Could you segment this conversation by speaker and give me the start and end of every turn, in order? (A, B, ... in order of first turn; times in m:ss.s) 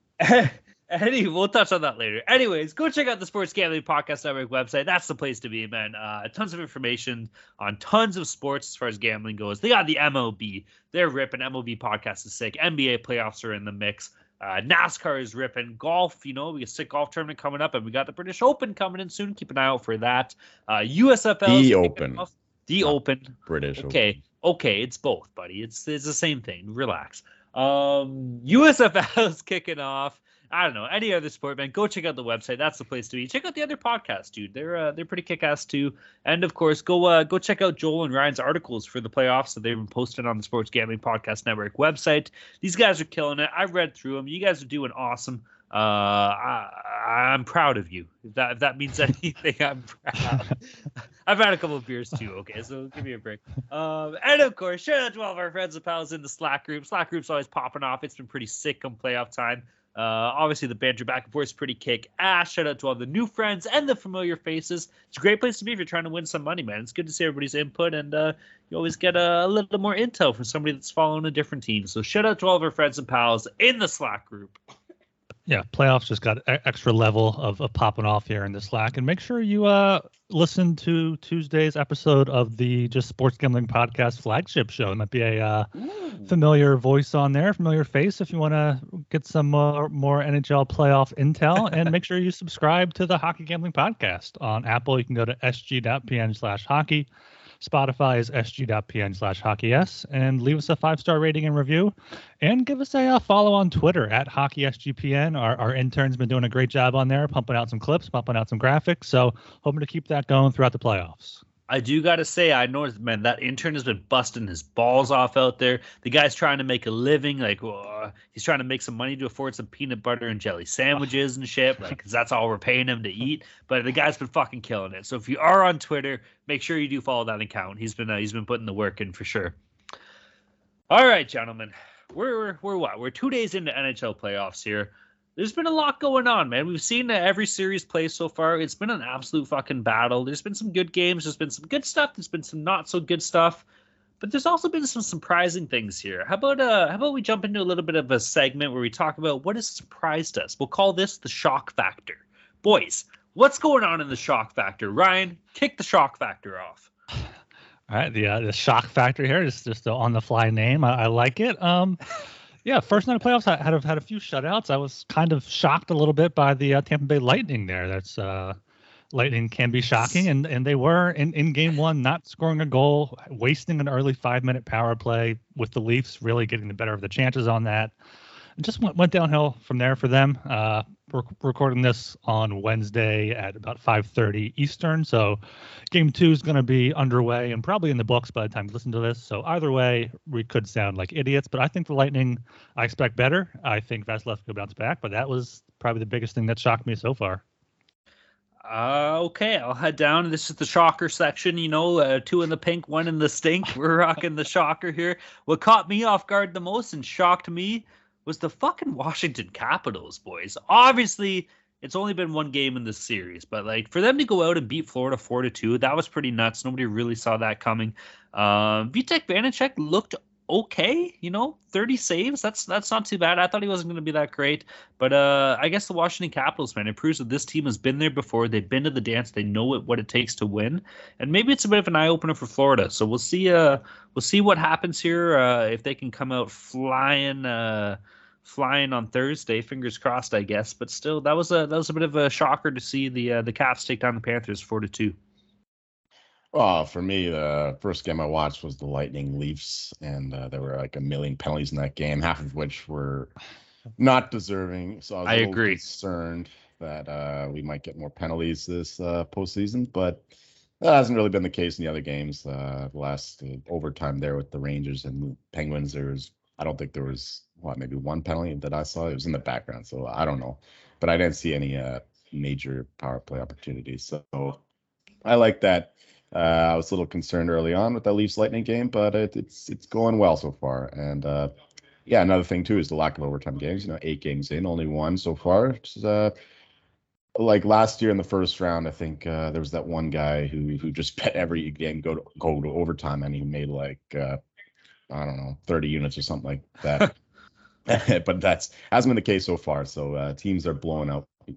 0:00.2-0:50.6 A
0:21.5-0:22.2 B
0:23.5-0:24.0 B
0:51.3-1:14.6 A
1:15.5-1:25.7 C
1:25.9-1:26.3 A
1:26.3-1:37.1 C
1:37.6-1:51.4 C
1:51.7-2:09.6 A
2:10.9-2:23.6 A
2:24.2-2:36.9 A
2:37.9-2:42.0 C
2:42.6-2:48.6 C
2:49.1-2:57.9 C
2:58.6-3:05.4 C
3:05.9-3:17.4 C
3:18.6-4:05.2 A
4:06.5-4:13.3 B
4:14.0-4:20.3 B
4:15.3-4:15.8 A
4:20.8-4:34.6 B
4:35.2-4:41.5 B
4:42.1-4:46.3 B
4:47.4-4:54.4 B
4:55.1-4:57.1 B
4:57.9-5:01.3 B